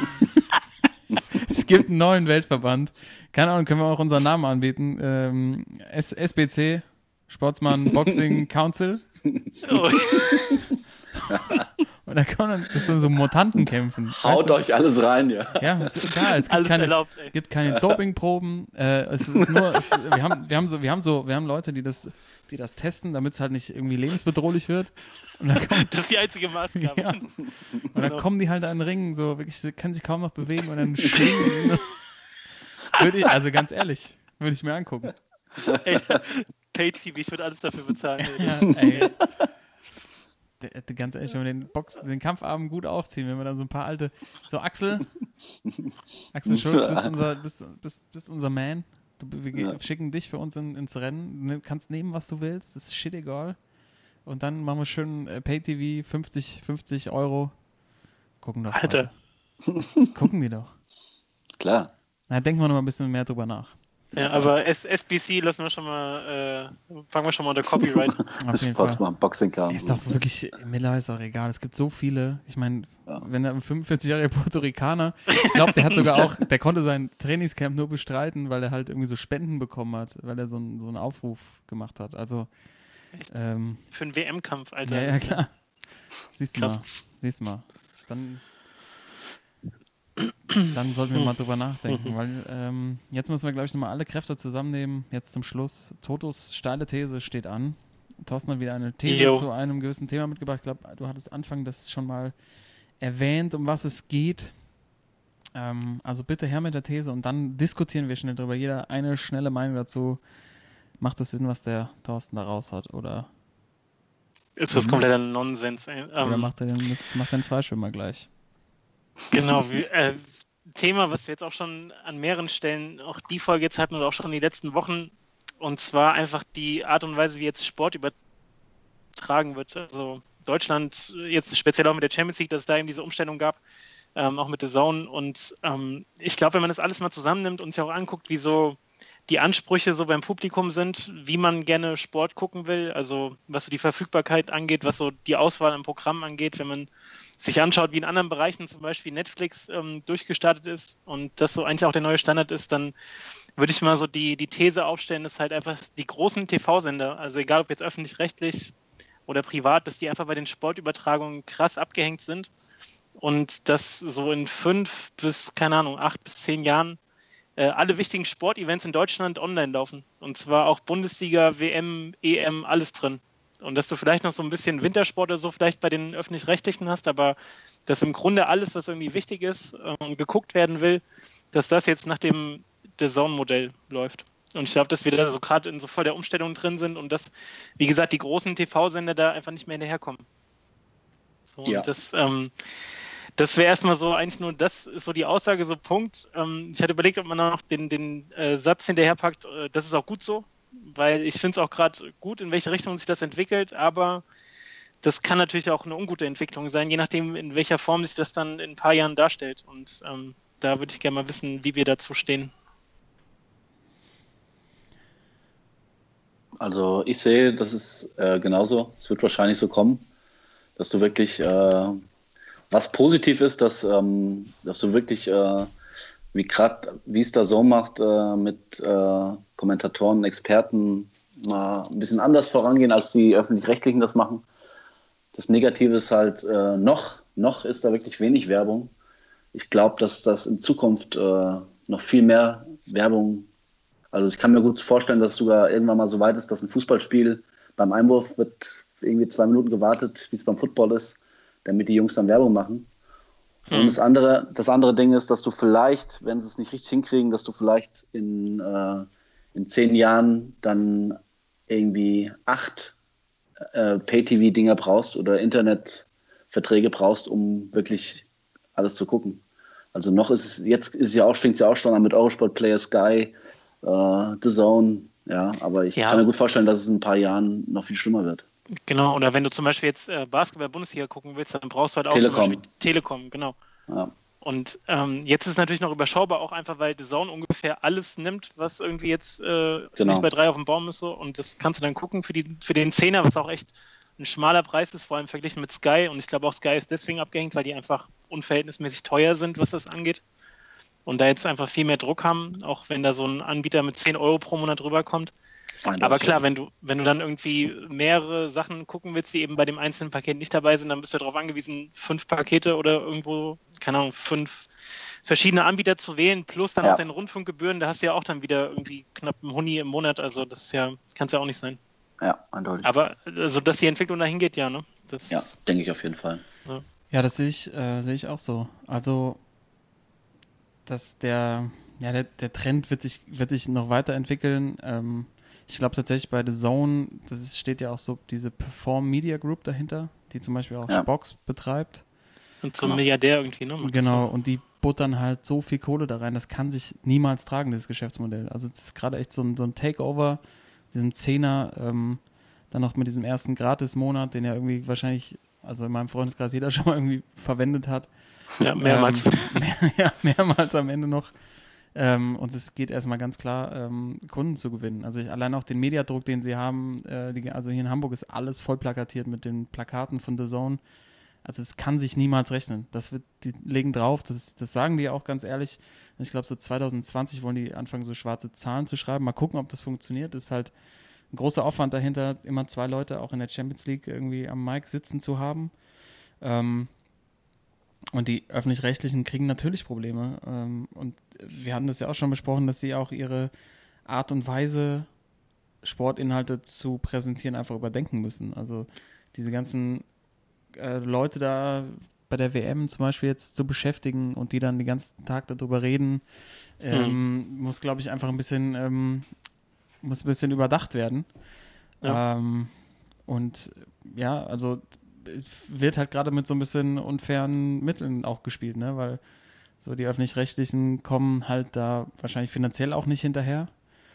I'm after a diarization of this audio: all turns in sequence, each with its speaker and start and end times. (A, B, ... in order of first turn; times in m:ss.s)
0:01.3-0:09.0 A
0:09.2-0:10.6 B
0:09.6-0:10.5 C
0:11.3-0:11.6 B
0:11.5-0:14.6 A
0:14.1-0:16.1 B
0:15.6-0:25.9 A
0:16.5-0:17.3 C
0:25.8-0:27.4 C
0:26.8-0:27.3 A
0:27.9-0:32.0 A
0:27.9-0:28.2 C
0:32.9-0:35.1 A
0:35.6-0:36.2 B
0:35.8-0:39.1 C
0:38.3-0:39.1 A
0:40.6-0:45.1 A
0:46.3-0:53.6 A
0:46.4-0:47.2 B
0:54.2-0:57.5 A
0:58.4-0:59.1 A
0:58.7-0:59.1 C
0:59.7-1:00.0 B
1:00.1-1:00.7 A
1:01.6-1:01.9 B
1:02.3-1:03.8 A
1:04.1-1:08.2 C
1:04.2-1:04.5 B
1:08.4-1:09.0 A
1:08.5-1:10.1 B
1:09.7-1:22.5 A
1:23.3-1:23.8 A
1:23.9-1:25.4 C
1:24.8-1:25.7 A
1:26.3-1:28.4 A
1:26.5-1:26.8 C
1:30.7-1:42.3 A
1:31.9-1:32.1 C
1:39.0-1:39.4 C
1:43.0-1:44.6 A
1:45.5-1:50.2 A
1:51.0-1:53.3 A
1:54.6-1:56.5 C
1:54.7-1:55.1 A
1:56.2-1:58.3 A
1:59.3-2:08.1 C
2:09.2-2:13.6 C
2:14.2-2:26.9 C
2:27.4-2:32.9 C
2:33.6-2:38.7 C
2:39.3-2:42.5 C
2:43.2-2:47.0 C
2:47.6-3:10.2 C
3:11.5-3:12.5 C
3:13.4-3:24.2 C
3:25.0-3:32.5 C
3:36.6-3:40.0 B
3:40.8-3:42.0 B
3:42.7-3:45.7 B
3:46.3-3:54.4 B
3:55.3-3:58.9 B
3:59.5-4:03.5 B
4:04.1-4:12.9 B
4:13.7-4:14.0 C
4:13.7-4:22.9 B
4:23.7-4:29.4 B
4:29.9-4:38.4 B
4:36.0-4:36.2 C
4:38.9-4:43.6 C
4:42.1-4:42.6 B
4:44.4-5:00.2 C
4:50.0-4:50.3 B
5:01.0-5:05.3 C
5:05.8-5:06.4 B
5:06.0-5:14.7 C
5:15.2-5:21.8 C
5:22.2-5:22.9 B
5:22.8-5:25.5 C
5:25.3-5:26.4 B
5:27.1-5:29.4 A
5:30.8-5:42.0 A
5:42.6-5:44.2 C
5:43.8-5:58.1 A
5:58.6-5:59.5 C
5:58.8-6:01.3 A
6:01.9-6:10.8 A
6:11.4-6:20.7 A
6:21.3-6:25.7 A
6:26.4-6:26.9 A
6:28.1-6:33.5 A
6:34.0-6:35.1 A
6:35.8-6:40.1 A
6:40.7-6:49.4 A
6:46.9-6:47.2 C
6:50.0-6:51.4 A
6:52.0-6:59.2 A
6:59.8-7:03.7 A